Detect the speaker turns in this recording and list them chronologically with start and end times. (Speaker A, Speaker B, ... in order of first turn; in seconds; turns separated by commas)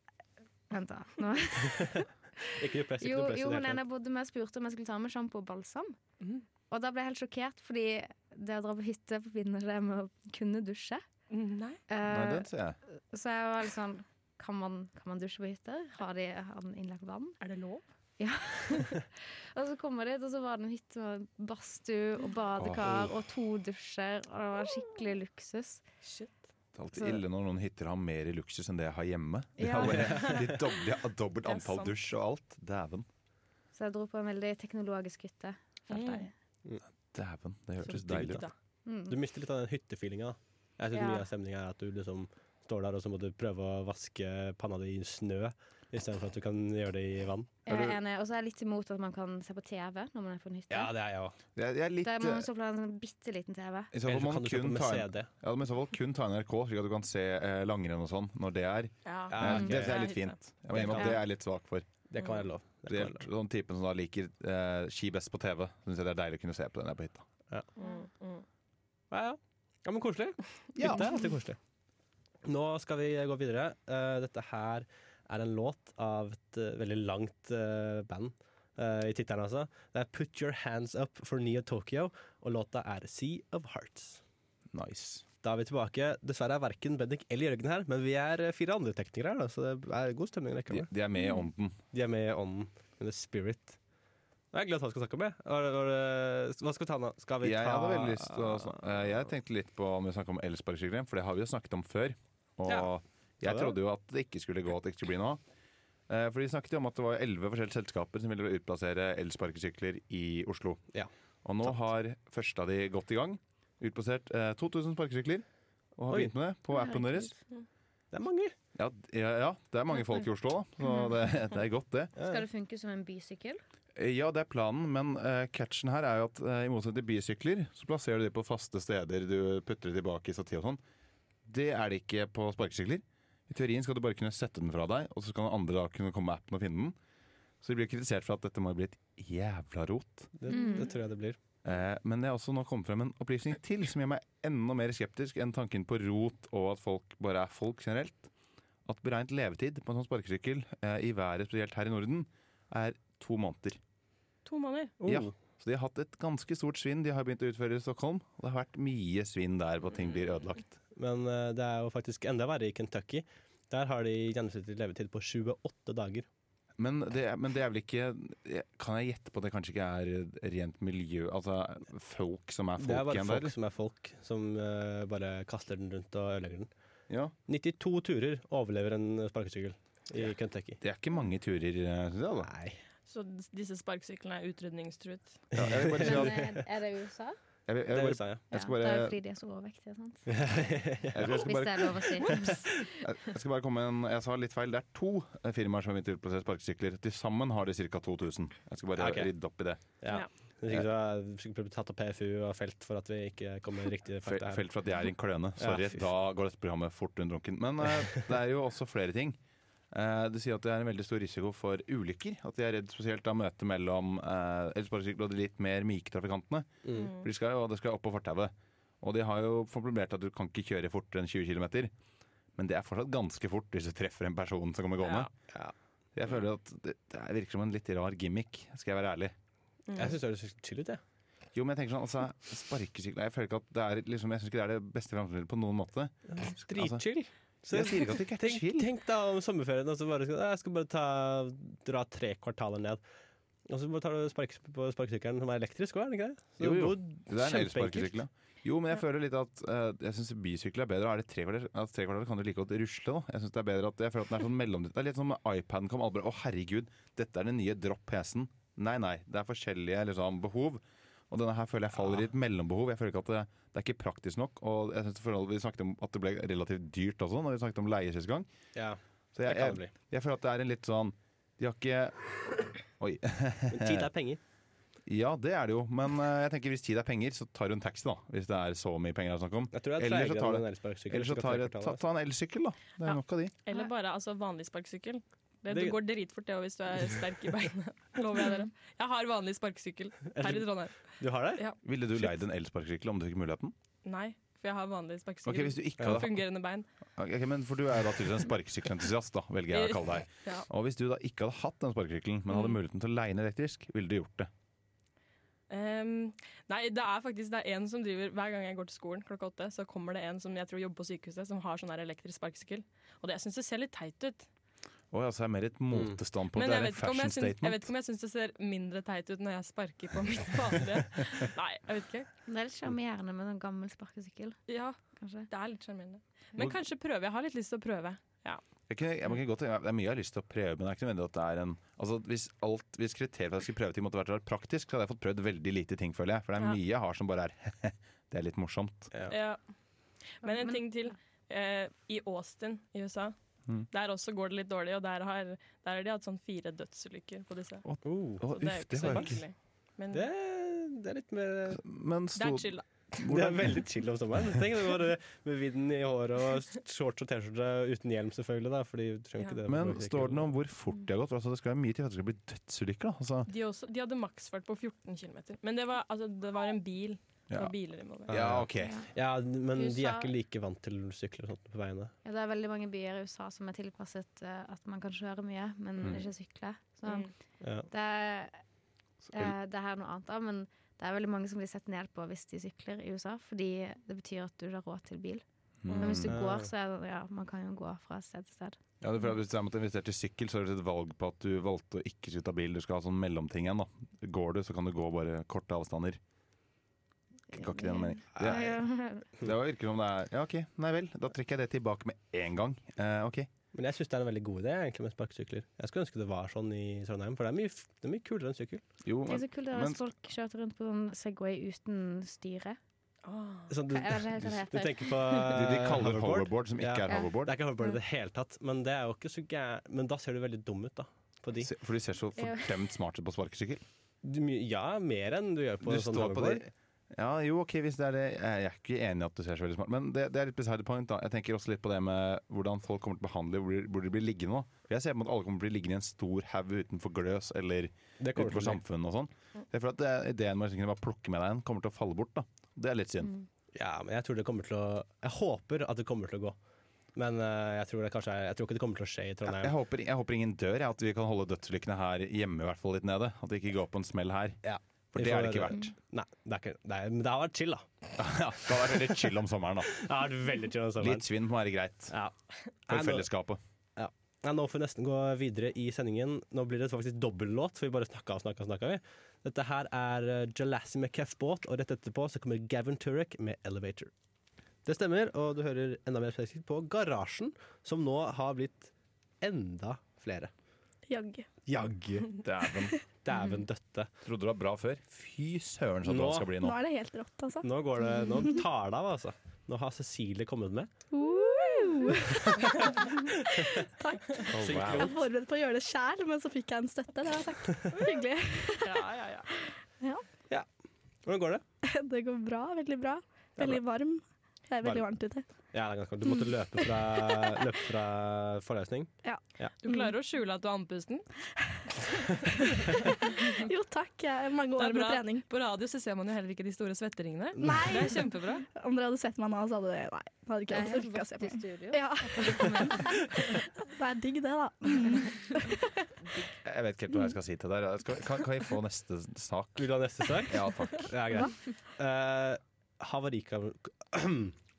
Speaker A: 0.7-2.4, Speaker B: 1.6-3.8, Speaker A: 3.0-6.0, Speaker A: 6.7-11.0, Speaker C: 11.3-11.8, Speaker A: 11.9-12.5, Speaker D: 12.0-12.8, Speaker A: 13.1-17.4, Speaker C: 17.4-17.8, Speaker A: 18.2-25.8, Speaker D: 22.6-23.1, Speaker C: 26.0-26.3, Speaker D: 26.8-33.1, Speaker A: 26.9-27.2, Speaker A: 29.6-30.4, Speaker B: 29.8-30.6, Speaker C: 29.9-30.4, Speaker C: 31.4-31.9, Speaker A: 33.7-36.3, Speaker C: 35.9-36.3, Speaker D: 37.1-38.4, Speaker C: 37.9-38.5, Speaker B: 38.0-38.4, Speaker A: 38.9-39.2, Speaker B: 39.1-47.9, Speaker A: 40.9-41.2, Speaker A: 47.7-50.9, Speaker B: 50.7-51.4, Speaker D: 51.6-52.5, Speaker A: 52.0-53.9, Speaker D: 53.9-61.9, Speaker B: 54.1-55.3, Speaker C: 59.0-60.4, Speaker B: 59.3-60.1, Speaker B: 60.7-61.2, Speaker B: 62.1-63.3, Speaker D: 62.9-67.2, Speaker C: 67.8-68.4, Speaker B: 69.1-71.6, Speaker D: 70.8-71.1, Speaker B: 72.4-84.2, Speaker D: 84.7-85.2, Speaker B: 85.4-90.9, Speaker D: 90.7-91.8, Speaker B: 91.9-93.8, Speaker B: 94.5-98.8, Speaker D: 97.4-105.4, Speaker B: 103.4-103.8, Speaker D: 106.1-110.8, Speaker D: 111.4-115.4, Speaker D: 116.0-117.3, Speaker B: 116.1-116.3, Speaker A: 116.7-117.3, Speaker B: 118.1-118.5, Speaker D: 118.7-122.1, Speaker B: 122.2-122.4, Speaker A: 122.2-123.6, Speaker D: 124.0-130.8, Speaker D: 131.4-136.9, Speaker D: 137.6-140.3, Speaker B: 140.4-141.4, Speaker A: 140.5-140.9, Speaker D: 141.6-148.3, Speaker D: 148.8-153.8, Speaker C: 154.4-154.9, Speaker B: 155.0-155.3, Speaker D: 155.1-160.8, Speaker B: 160.9-166.3, Speaker D: 166.8-173.5, Speaker B: 172.8-176.7, Speaker D: 177.1-177.3, Speaker B: 177.5-180.8, Speaker D: 180.8-182.5, Speaker B: 182.4-182.8, Speaker C: 183.1-185.4, Speaker B: 185.5-186.6, Speaker D: 185.5-186.4, Speaker A: 186.0-187.4, Speaker D: 187.7-189.2, Speaker B: 187.9-188.4, Speaker A: 188.5-190.3, Speaker B: 190.3-191.5, Speaker D: 191.1-199.8, Speaker A: 191.2-192.8, Speaker B: 192.0-192.9, Speaker B: 198.9-199.3, Speaker B: 200.0-204.7, Speaker D: 204.2-209.4, Speaker B: 205.6-206.1, Speaker D: 209.9-221.9, Speaker B: 216.8-217.1, Speaker C: 217.0-217.2, Speaker D: 222.6-225.3, Speaker C: 225.0-225.3, Speaker D: 226.2-229.3, Speaker C: 229.9-230.2, Speaker B: 229.9-231.0, Speaker D: 231.5-237.0, Speaker B: 236.3-243.0, Speaker D: 237.7-238.9, Speaker B: 243.7-248.2, Speaker D: 246.6-268.5, Speaker B: 268.7-269.9, Speaker D: 269.3-274.1, Speaker B: 273.7-274.4, Speaker D: 275.1-283.5, Speaker B: 279.7-282.0, Speaker C: 283.0-291.8, Speaker B: 285.7-286.0, Speaker B: 290.3-291.6, Speaker D: 291.8-293.7, Speaker C: 294.0-296.9, Speaker D: 295.4-296.4, Speaker B: 296.0-296.2, Speaker D: 297.2-304.5, Speaker C: 299.7-300.7, Speaker C: 305.7-314.5, Speaker D: 315.1-317.9, Speaker B: 315.9-316.2, Speaker C: 316.5-322.3, Speaker A: 322.5-324.6, Speaker C: 324.7-325.0, Speaker A: 325.2-325.5, Speaker C: 325.5-328.6, Speaker D: 328.9-339.1, Speaker C: 339.3-339.6, Speaker C: 340.4-343.3, Speaker A: 340.4-340.8, Speaker C: 343.9-347.8, Speaker D: 347.8-349.4, Speaker B: 348.0-348.5, Speaker C: 348.5-350.3, Speaker B: 349.0-349.3, Speaker B: 350.1-351.8, Speaker D: 351.7-353.8, Speaker C: 352.3-352.8, Speaker B: 353.2-360.5, Speaker D: 359.7-363.5, Speaker C: 363.5-368.5, Speaker D: 368.3-369.0, Speaker B: 368.3-372.1, Speaker A: 368.8-369.1, Speaker A: 369.7-370.3, Speaker A: 372.2-377.3, Speaker B: 377.6-377.9, Speaker A: 377.9-378.6, Speaker D: 379.3-379.5, Speaker A: 379.3-385.4, Speaker D: 385.8-386.4, Speaker C: 385.9-386.2, Speaker A: 386.0-388.8, Speaker B: 386.3-386.7, Speaker D: 389.0-396.2, Speaker D: 397.5-398.8, Speaker A: 397.5-399.3, Speaker B: 398.3-398.6, Speaker D: 399.4-403.5, Speaker B: 403.7-408.8, Speaker D: 409.0-410.0, Speaker A: 409.3-412.8, Speaker C: 413.2-413.7, Speaker B: 413.7-421.7, Speaker A: 413.9-415.4, Speaker D: 415.5-417.5, Speaker D: 421.6-423.8, Speaker A: 422.4-422.7, Speaker B: 424.2-426.6, Speaker D: 425.8-443.3, Speaker B: 438.2-438.8, Speaker B: 443.7-446.6, Speaker B: 447.1-449.8, Speaker D: 449.4-454.6, Speaker B: 454.6-457.9, Speaker D: 455.1-455.9, Speaker D: 458.2-460.0, Speaker B: 459.9-461.3, Speaker D: 461.0-462.1, Speaker B: 462.1-462.3, Speaker B: 462.9-463.3, Speaker D: 462.9-463.6, Speaker B: 463.9-474.1, Speaker B: 474.8-480.5, Speaker E: 481.1-481.5, Speaker B: 481.7-482.4, Speaker D: 482.4-483.0, Speaker B: 483.2-484.1, Speaker D: 484.2-486.8, Speaker B: 486.1-486.5, Speaker E: 486.6-487.7, Speaker B: 487.6-490.9, Speaker E: 488.2-488.6, Speaker E: 491.1-500.2, Speaker B: 492.4-493.9, Speaker B: 494.5-495.2, Speaker D: 494.5-495.1, Speaker C: 498.8-499.5, Speaker B: 501.2-501.6, Speaker E: 501.8-505.4, Speaker B: 503.6-503.8, Speaker B: 505.6-509.7, Speaker E: 506.8-507.5, Speaker E: 509.2-510.1, Speaker C: 509.8-511.3, Speaker E: 511.7-515.4, Speaker C: 513.2-513.6, Speaker C: 514.8-518.6, Speaker E: 517.6-526.1, Speaker B: 517.6-518.0, Speaker A: 520.7-523.3, Speaker D: 526.6-529.9, Speaker B: 529.8-534.6, Speaker D: 530.4-531.1